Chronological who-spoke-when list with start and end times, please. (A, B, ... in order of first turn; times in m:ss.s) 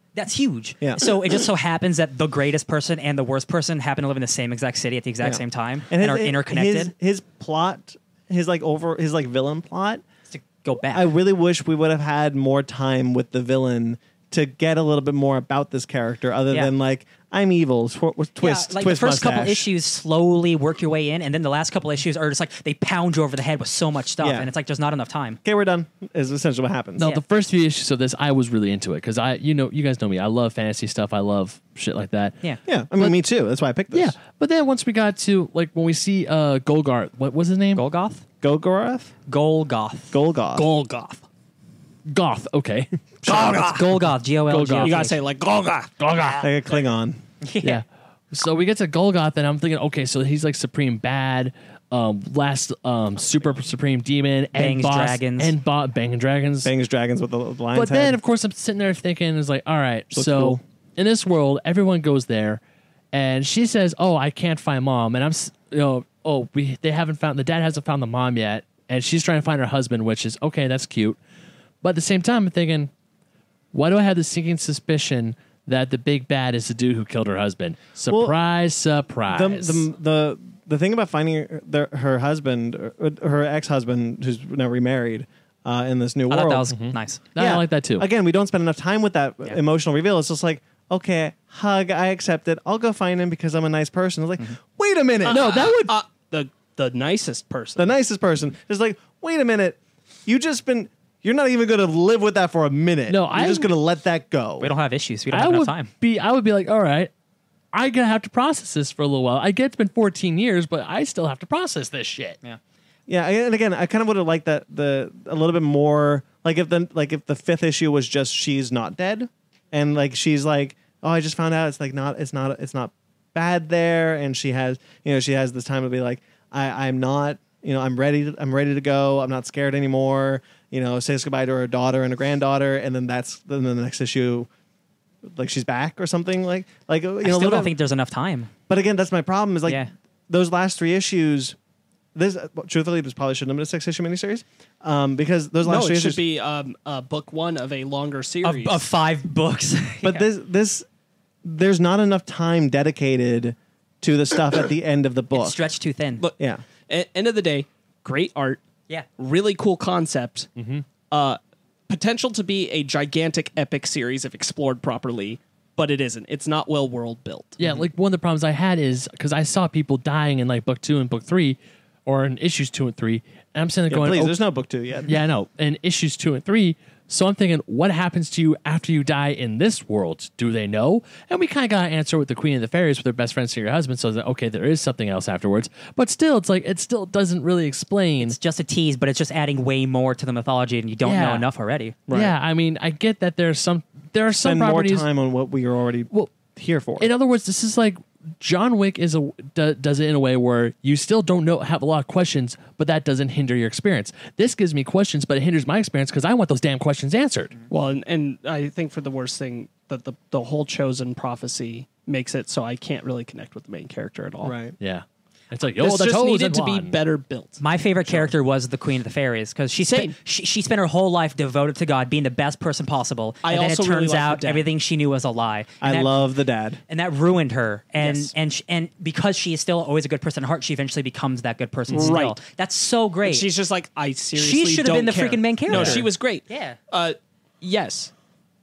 0:00.2-0:06.9 A
0:00.8-0:01.1 B
0:05.2-0:10.0 B
0:10.3-0:11.1 A
0:10.9-0:19.7 B
0:18.4-0:25.4 A
0:24.2-0:24.5 B
0:25.4-0:27.1 B
0:27.0-0:32.4 C
0:32.4-0:33.1 A
0:32.7-0:34.2 B
0:33.9-0:37.8 C
0:37.8-0:38.2 A
0:38.4-0:39.2 B
0:39.3-0:40.1 A
0:40.1-0:40.7 B
0:40.6-0:41.2 D
0:42.1-0:43.3 C
0:43.2-0:43.5 B
0:43.3-0:45.2 A
0:44.5-0:45.1 C
0:44.8-0:45.9 D
0:46.0-0:46.4 C
0:46.4-0:47.2 B
0:47.4-0:47.8 A
0:47.6-0:56.7 C
0:54.5-0:55.5 A
0:56.6-0:58.2 B
0:57.7-1:02.6 C
1:00.1-1:00.6 B
1:03.1-1:11.2 C
1:11.8-1:12.9 C
1:13.7-1:19.8 C
1:18.1-1:18.4 B
1:19.3-1:26.7 B
1:26.3-1:27.2 A
1:26.7-1:28.1 C
1:27.4-1:35.5 B
1:35.2-1:36.0 C
1:35.3-1:37.9 D
1:37.8-1:44.8 B
1:43.1-1:43.7 C
1:44.6-1:45.9 A
1:45.3-1:47.1 C
1:47.7-1:52.4 C
1:53.1-2:14.5 B
2:15.2-2:17.7 B
2:17.2-2:18.5 A
2:18.7-2:21.6 B
2:19.7-2:19.9 A
2:22.2-2:26.2 B
2:25.6-2:28.8 D
2:28.4-2:30.3 A
2:30.0-2:30.8 B
2:31.4-2:35.6 B
2:35.3-2:36.2 A
2:36.9-2:38.6 D
2:39.2-2:40.5 D
2:40.6-2:40.9 C
2:41.1-2:41.4 D
2:41.9-2:47.6 D
2:47.6-2:54.4 C
2:53.9-2:55.2 B
2:55.1-3:08.4 C
3:08.2-3:12.0 A
3:11.0-3:11.5 C
3:12.1-3:12.3 B
3:12.1-3:15.1 C
3:14.4-3:17.1 B
3:17.0-3:27.5 C
3:27.7-3:34.6 D
3:34.4-3:34.8 B
3:34.8-3:37.0 C
3:35.8-3:38.3 D
3:37.6-3:46.2 A
3:39.8-3:40.2 D
3:43.4-3:44.7 D
3:45.8-3:46.8 B
3:46.9-3:53.5 A
3:48.0-3:48.3 D
3:51.9-3:52.4 D
3:53.2-3:58.1 D
3:54.4-3:56.8 A